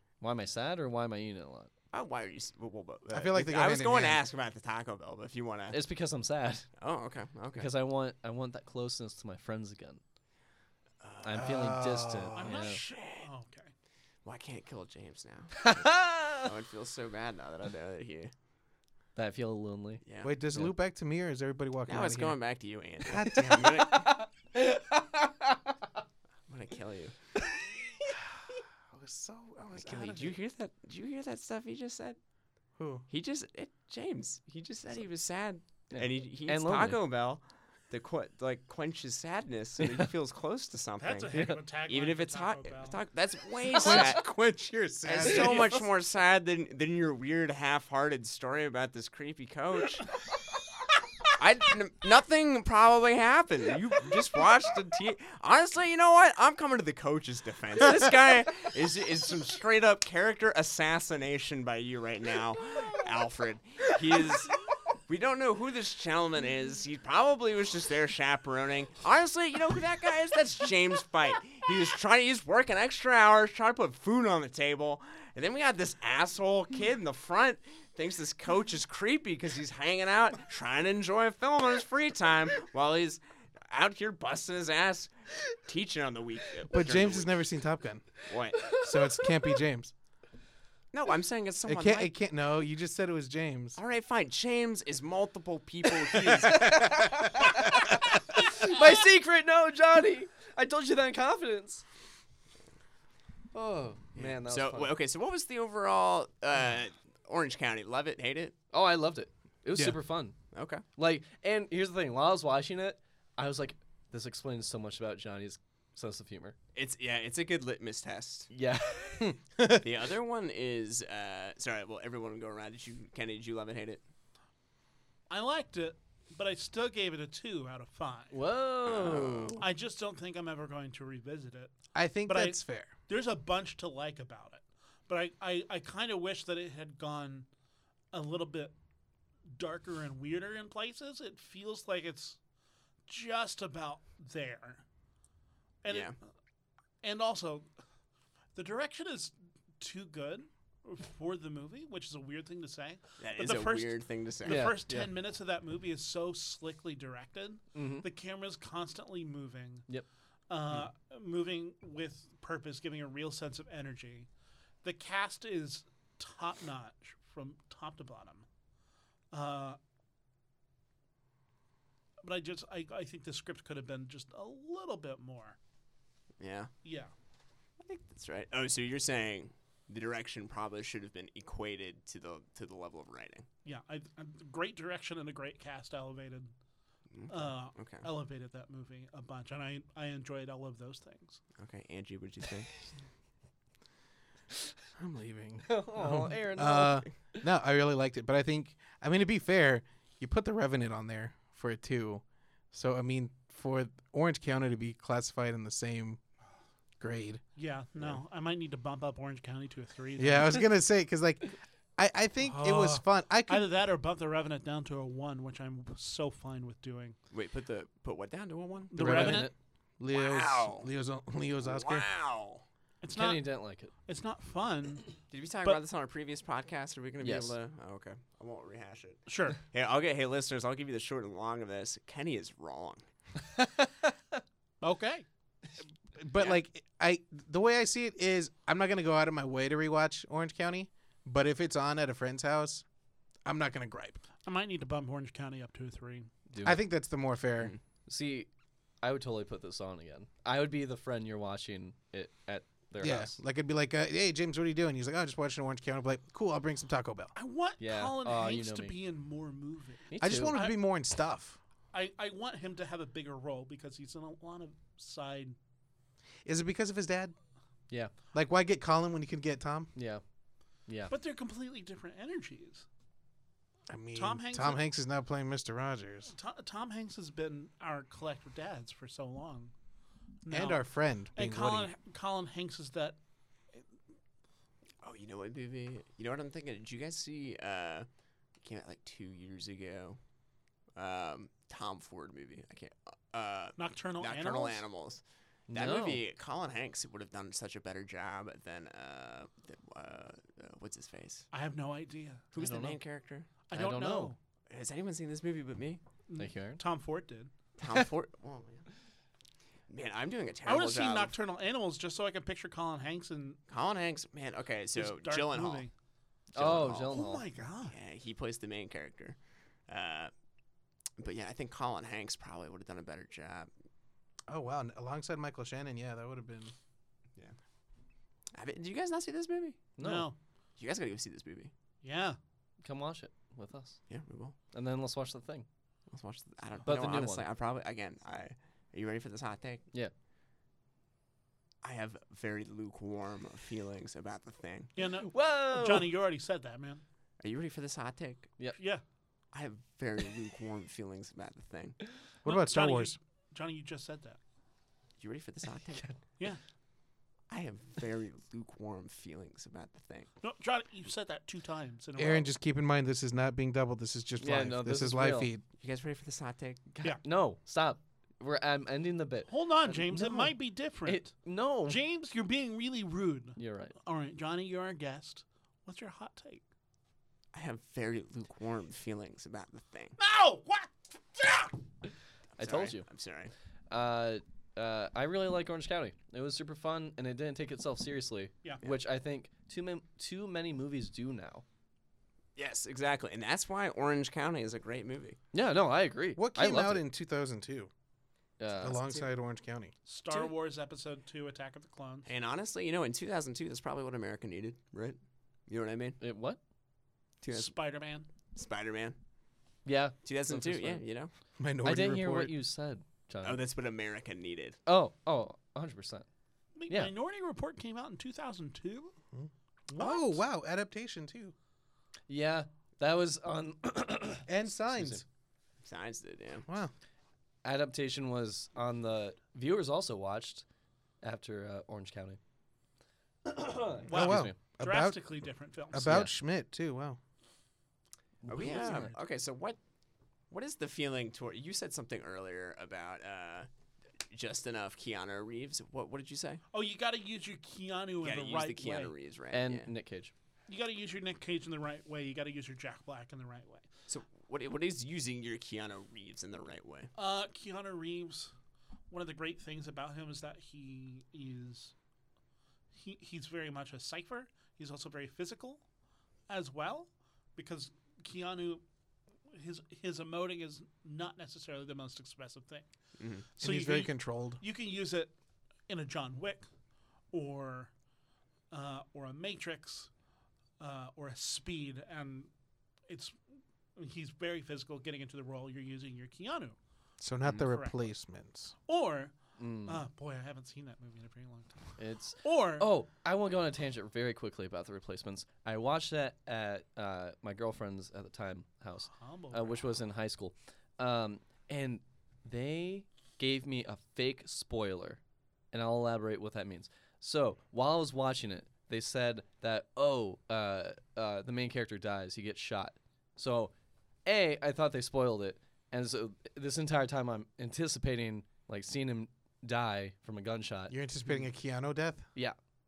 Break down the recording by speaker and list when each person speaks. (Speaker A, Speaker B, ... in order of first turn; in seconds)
Speaker A: 0.2-1.7, 5.7-6.7, 7.5-10.0, 11.2-12.8, 15.6-16.5, 19.2-20.0, 23.6-25.6, 35.9-37.0, 39.8-40.1, 41.3-41.6, 96.4-101.8, 103.5-104.9, 108.7-110.4, 111.0-116.6, 118.5-119.3, 128.3-129.6, 154.5-155.1, 157.7-158.1, 195.6-197.1, 219.0-219.5, 223.1-223.9, 227.2-227.6, 246.5-246.8, 248.1-248.5, 249.0-253.4, 257.8-259.0, 260.1-260.6, 269.9-270.2, 270.9-271.1, 295.7-296.2, 302.6-303.0, 303.7-304.4, 306.4-306.8, 316.5-317.4, 330.0-330.3, 332.8-334.0, 334.7-335.7, 336.9-337.5, 345.2-346.1, 364.4-365.5, 366.9-370.5, 371.1-372.0, 373.6-373.9, 382.6-383.1, 383.9-391.6, 395.5-397.0, 398.6-399.1, 406.2-406.6, 409.9-411.0, 411.8-413.6, 414.9-416.3, 416.9-417.1, 422.3-425.2, 427.6-430.7, 431.2-432.4, 433.4-434.6, 436.0-436.3, 438.4-439.1, 449.5-450.3, 489.6-490.0, 492.0-505.2, 505.7-513.7, 514.2-520.9
Speaker B: 1.9-5.8, 6.8-7.7, 11.0-11.6, 12.5-13.3, 14.2-18.3, 20.0-20.3, 21.9-24.2, 26.5-27.2, 29.8-32.2, 33.1-44.3, 45.0-50.1, 51.4-87.3, 88.3-88.8, 90.9-92.1, 93.8-97.5, 104.2-108.5, 110.5-110.8, 116.8-118.5, 119.8-124.0, 128.8-129.7, 145.9-146.2, 153.2-154.7, 176.4-176.7, 177.8-183.5, 187.1-188.1, 191.6-192.7, 217.3-219.3, 220.1-220.9, 221.6-222.6, 225.3-233.0, 285.0-288.1, 288.6-290.2, 291.0-301.5, 302.5-303.5, 304.7-306.0, 307.8-308.9, 309.9-311.4, 313.7-315.9, 316.6-317.2, 317.9-319.4, 319.9-320.3, 321.2-323.7, 328.5-329.9, 330.8-331.7, 334.1-334.6, 336.1-339.9, 341.8-344.9, 347.4-348.5, 349.5-352.0, 355.2-356.1, 357.5-360.3, 365.8-366.8, 377.5-380.2, 382.6-383.5, 392.6-395.4, 402.3-406.2, 407.4-407.8, 408.6-409.2, 410.2-411.3, 413.4-414.8, 425.8-426.7, 438.5-439.8, 440.5-443.7, 444.3-446.6, 448.2-449.9, 454.1-457.1, 473.2-473.5
Speaker C: 3.1-4.2, 11.3-12.6, 20.2-22.4, 23.1-23.9, 28.9-30.4, 32.8-33.1, 43.7-45.8, 86.7-88.2, 88.7-89.9, 91.7-93.8, 96.3-97.0, 119.2-119.8, 131.9-132.9, 195.0-206.2, 207.0-207.4, 210.2-213.7, 219.0-222.1, 236.2-242.8, 243.5-244.2, 246.6-247.8, 253.0-257.3, 260.2-261.6, 266.5-267.3, 268.3-269.9, 273.9-276.3, 280.5-281.9, 324.5-326.7, 352.4-353.1, 362.2-365.6, 396.4-397.9, 398.8-399.9, 411.6-412.5, 419.3-421.5, 424.5-425.2, 426.7-426.9, 434.1-435.2, 435.9-437.2, 473.6-474.6, 487.2-488.7, 520.9-522.3
Speaker D: 12.4-13.7, 41.0-43.0, 125.3-128.4, 129.6-131.7, 132.3-137.5, 138.1-138.8, 139.5-142.4, 143.1-144.8, 145.8-146.2, 147.0-147.7, 148.6-159.9, 160.5-164.3, 164.8-168.4, 169.3-169.8, 172.2-175.6, 176.8-177.1, 183.7-186.5, 187.3-191.4, 207.6-210.7, 212.4-217.2, 218.9-219.5, 223.0-223.5, 224.1-225.1, 229.3-229.6, 234.8-235.2, 244.4-246.3, 257.4-260.8, 261.9-265.6, 271.1-272.9, 274.1-274.8, 276.3-279.7, 280.4-280.9, 281.4-283.2, 293.8-294.9, 301.5-302.4, 303.7-304.4, 306.3-307.5, 310.7-313.6, 315.0-315.9, 317.1-318.0, 330.0-330.4, 332.0-332.4, 345.0-347.0, 348.8-349.0, 352.4-354.4, 360.4-362.5, 369.5-371.3, 371.9-376.6, 380.2-381.8, 400.1-402.3, 407.5-408.3, 416.8-419.1, 419.9-420.4, 434.1-436.3, 438.5-439.2, 446.7-449.1, 450.7-453.9, 457.1-458.5, 459.1-461.9, 462.9-465.8, 466.5-468.8, 469.5-472.9, 473.6-475.3, 475.9-476.7, 477.3-477.9, 478.7-480.1, 480.8-482.5, 483.1-483.4, 484.0-486.8, 487.5-488.1, 488.9-492.9, 499.1-499.9